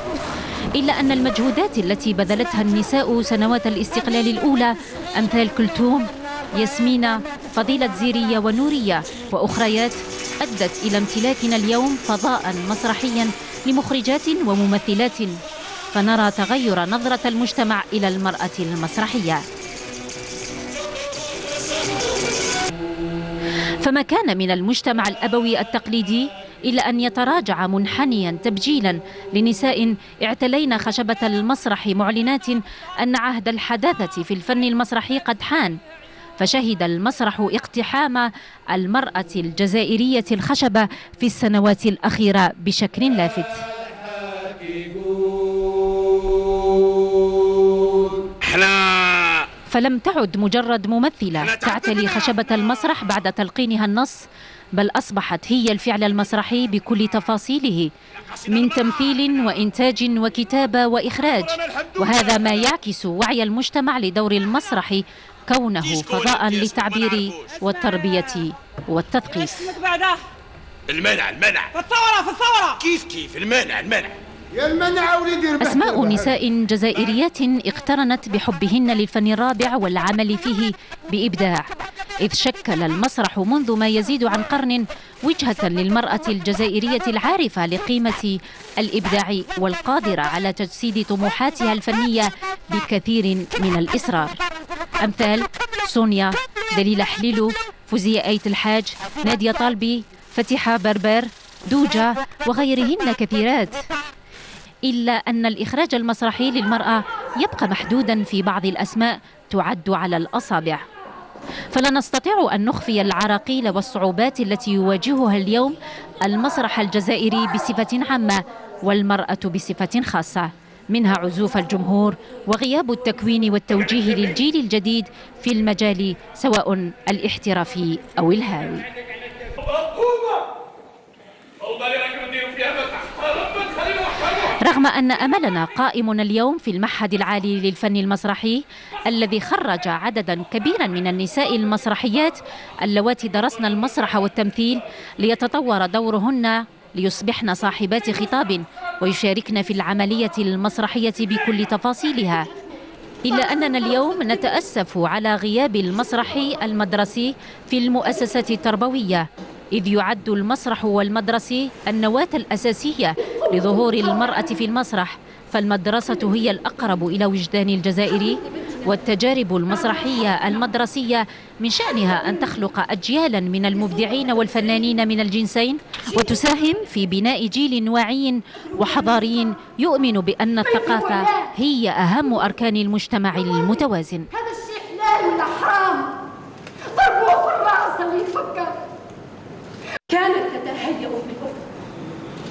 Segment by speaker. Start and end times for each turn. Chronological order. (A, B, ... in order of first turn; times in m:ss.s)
0:00.8-0:15.4 A
0:15.9-0:19.4 A
0:23.8-0:35.8 A
0:36.4-0:43.7 A
0:48.4-0:49.5 B
0:49.7-0:57.9 A
0:58.5-1:09.8 A
1:01.7-1:02.0 B
1:06.0-1:07.6 B
1:10.9-1:11.8 B
1:11.9-1:12.7 C
1:12.7-1:14.2 B
1:14.5-1:16.3 C
1:15.6-1:21.6 A
1:22.2-1:34.4 A
1:35.0-1:43.8 A
1:44.8-1:50.8 A
1:51.7-2:08.9 A
2:09.6-2:10.5 B
2:11.6-2:14.5 B
2:14.6-2:32.5 A
2:33.2-3:04.3 A
3:01.0-3:01.3 D
3:04.4-3:06.2 D
3:06.9-3:08.8 D
3:10.1-3:11.7 D